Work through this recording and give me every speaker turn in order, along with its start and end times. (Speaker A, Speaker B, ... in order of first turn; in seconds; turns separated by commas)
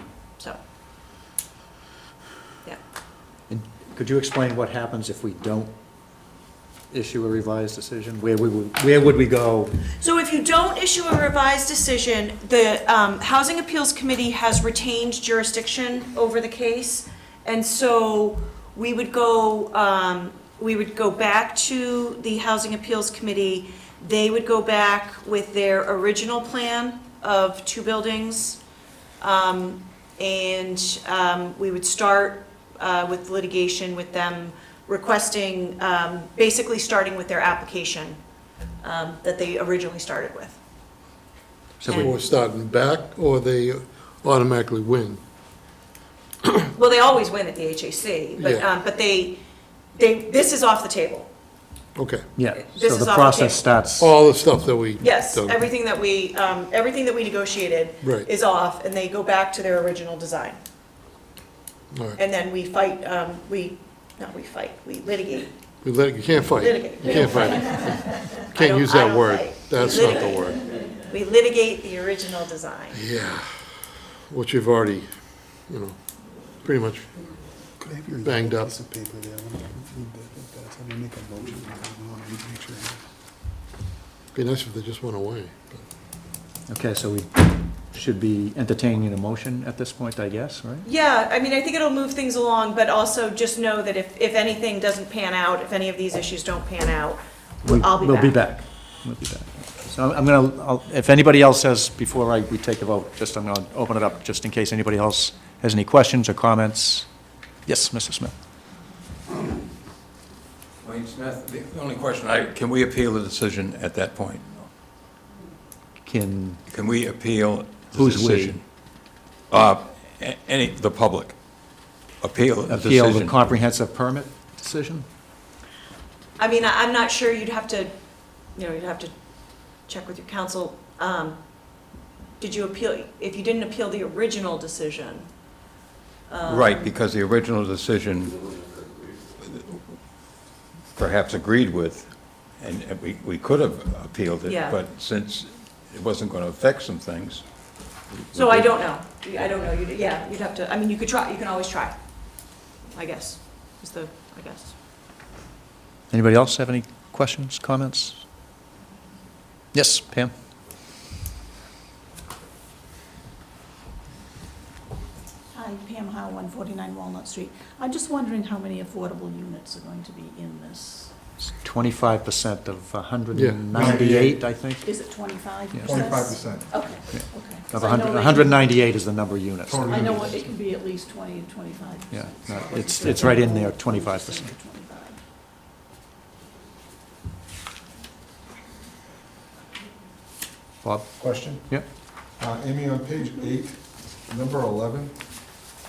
Speaker A: 3.5-5.7, Speaker A: 6.9-9.7, Speaker B: 10.0-28.6, Speaker B: 29.2-38.2, Speaker B: 38.8-40.6, Speaker A: 41.8-42.1, Speaker C: 41.9-45.2, Speaker B: 46.7-49.4, Speaker C: 48.4-48.6, Speaker B: 50.0-51.3, Speaker C: 52.0-52.2, Speaker A: 52.4-54.1, Speaker B: 52.6-53.6, Speaker C: 54.0-55.6, Speaker B: 55.0-60.6, Speaker C: 58.0-58.3, Speaker C: 61.9-62.2, Speaker B: 62.1-65.5, Speaker C: 65.8-70.6, Speaker B: 66.5-73.0, Speaker C: 72.9-76.0, Speaker C: 76.6-77.1, Speaker D: 77.8-83.0, Speaker C: 78.2-78.7, Speaker C: 84.3-85.8, Speaker A: 86.7-90.8, Speaker B: 90.8-98.4, Speaker A: 97.6-107.1, Speaker A: 107.7-108.3, Speaker E: 110.8-114.7, Speaker A: 116.0-116.6, Speaker E: 116.7-118.6, Speaker A: 117.9-118.6, Speaker E: 119.5-121.3, Speaker E: 122.2-123.5, Speaker A: 122.7-125.0, Speaker B: 126.4-127.9, Speaker B: 128.5-129.1, Speaker B: 129.8-131.4, Speaker B: 132.4-135.3, Speaker B: 136.3-136.9, Speaker E: 136.4-138.6, Speaker E: 139.4-139.8, Speaker E: 140.9-147.4, Speaker B: 144.4-144.8, Speaker E: 148.3-148.6, Speaker B: 148.3-152.0, Speaker B: 152.9-154.7, Speaker A: 156.1-158.2, Speaker A: 159.7-160.3, Speaker F: 165.5-171.1, Speaker A: 171.4-174.9, Speaker C: 173.3-173.6, Speaker G: 173.7-174.4, Speaker F: 174.8-178.8, Speaker A: 175.7-176.0, Speaker G: 175.8-176.7, Speaker A: 177.1-180.2, Speaker G: 179.7-180.4, Speaker F: 179.8-185.2, Speaker A: 182.1-184.5, Speaker A: 190.8-191.8, Speaker G: 191.2-191.8, Speaker G: 192.4-195.1